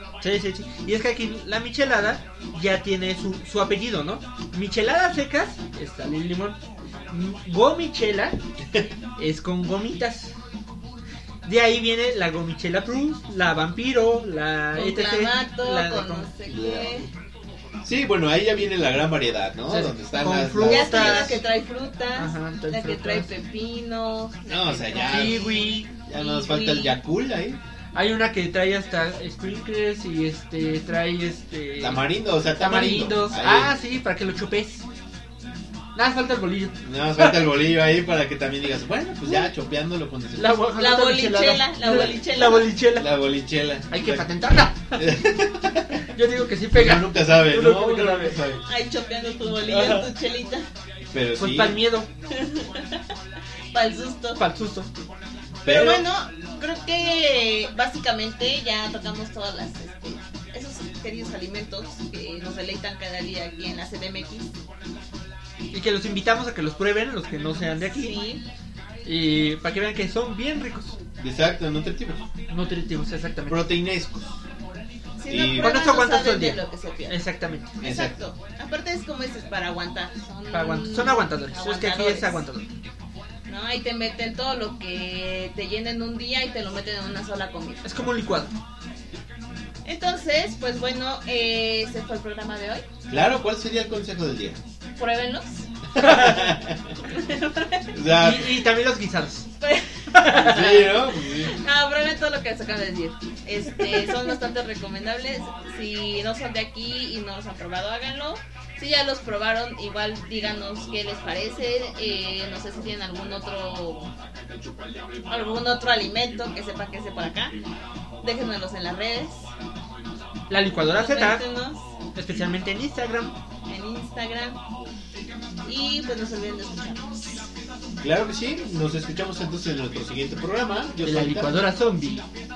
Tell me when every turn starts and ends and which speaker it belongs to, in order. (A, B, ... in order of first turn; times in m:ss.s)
0:00.2-0:06.6 A
0:07.1-0:08.4 A
0:09.2-0:10.3 A
0:11.4-0:16.3 A
0:14.8-0:17.1 B
0:16.5-0:17.0 C
0:17.8-0:21.4 C
0:19.7-0:21.4 A
0:20.6-0:27.0 B
0:22.2-0:23.3 A
0:24.5-0:25.4 C
0:24.9-0:25.9 A
0:26.1-0:27.6 C
0:28.0-0:34.8 A
0:31.8-0:33.7 C
0:36.0-0:37.5 A
0:36.8-0:40.6 C
0:40.4-0:43.1 A
0:40.8-0:42.7 B
0:43.0-0:44.3 C
0:43.9-0:45.1 A
0:44.9-0:46.0 C
0:46.1-0:48.4 A
0:46.7-0:48.6 C
0:48.6-0:50.6 B
0:49.7-0:50.1 A
0:51.1-0:51.8 C
0:51.4-0:52.1 A
0:52.3-0:53.0 B
0:53.7-0:54.4 B
0:54.4-0:54.9 A
0:55.6-0:56.0 C
0:55.6-1:04.5 B
1:05.7-1:08.2 A
1:07.9-1:08.4 B
1:09.0-1:11.0 A
1:11.2-1:12.2 C
1:12.5-1:13.7 A
1:13.5-1:14.3 C
1:15.2-1:17.2 B
1:15.3-1:15.7 C
1:15.5-1:17.7 A
1:17.8-1:22.4 B
1:17.8-1:18.2 C
1:20.5-1:22.7 A
1:23.5-1:27.9 B
1:27.8-1:28.5 A
1:29.8-1:32.9 B
1:33.1-1:34.6 C
1:35.0-1:35.7 B
1:36.0-1:36.9 C
1:36.0-1:36.5 A
1:37.1-1:37.9 B
1:37.9-1:38.6 C
1:38.1-1:39.5 A
1:39.6-1:54.1 B
1:40.1-1:40.5 A
1:40.3-1:41.6 C
1:55.3-1:57.6 B
1:58.2-1:59.5 B
2:00.5-2:01.4 A
2:01.0-2:01.8 B
2:02.2-2:03.4 A
2:03.7-2:04.6 B
2:05.6-2:07.5 B
2:08.0-2:11.6 C
2:11.0-2:12.3 A